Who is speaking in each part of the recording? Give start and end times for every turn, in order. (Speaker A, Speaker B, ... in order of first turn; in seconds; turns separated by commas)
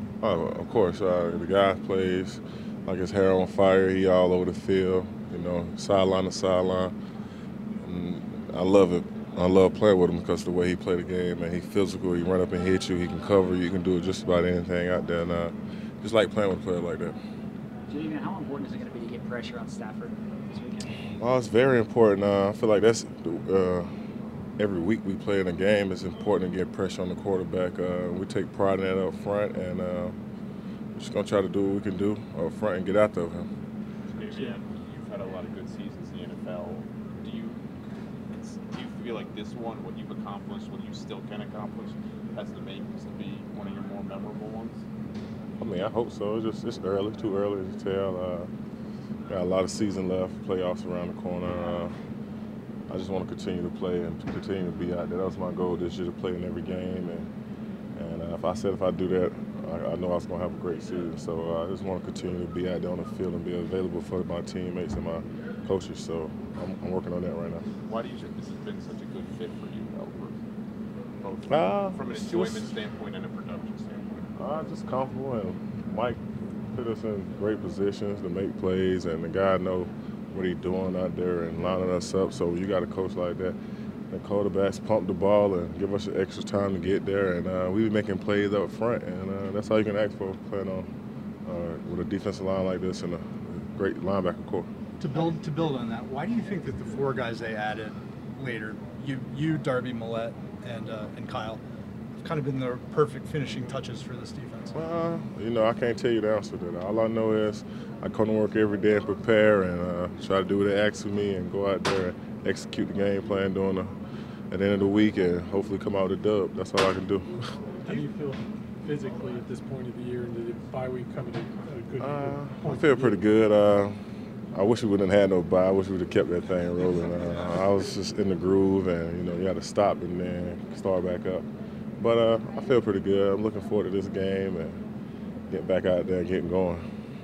Speaker A: 0.2-6.9, Speaker A: 7.8-17.1, Speaker B: 17.9-20.9, Speaker A: 21.2-23.9, Speaker A: 24.6-30.1, Speaker A: 30.9-33.5, Speaker C: 34.0-37.6, Speaker C: 38.3-44.8, Speaker A: 45.6-48.5, Speaker A: 49.3-51.9, Speaker A: 52.9-57.3, Speaker A: 58.0-67.7, Speaker C: 67.8-70.3, Speaker C: 71.2-74.3, Speaker A: 71.5-72.5, Speaker A: 74.3-83.6, Speaker A: 84.1-90.9, Speaker A: 91.5-94.7, Speaker D: 95.0-101.6, Speaker D: 102.2-104.8, Speaker A: 104.7-113.9, Speaker A: 114.5-117.3, Speaker E: 117.8-123.1, Speaker A: 122.0-124.0, Speaker A: 124.5-131.5, Speaker A: 132.0-134.8, Speaker A: 135.5-136.8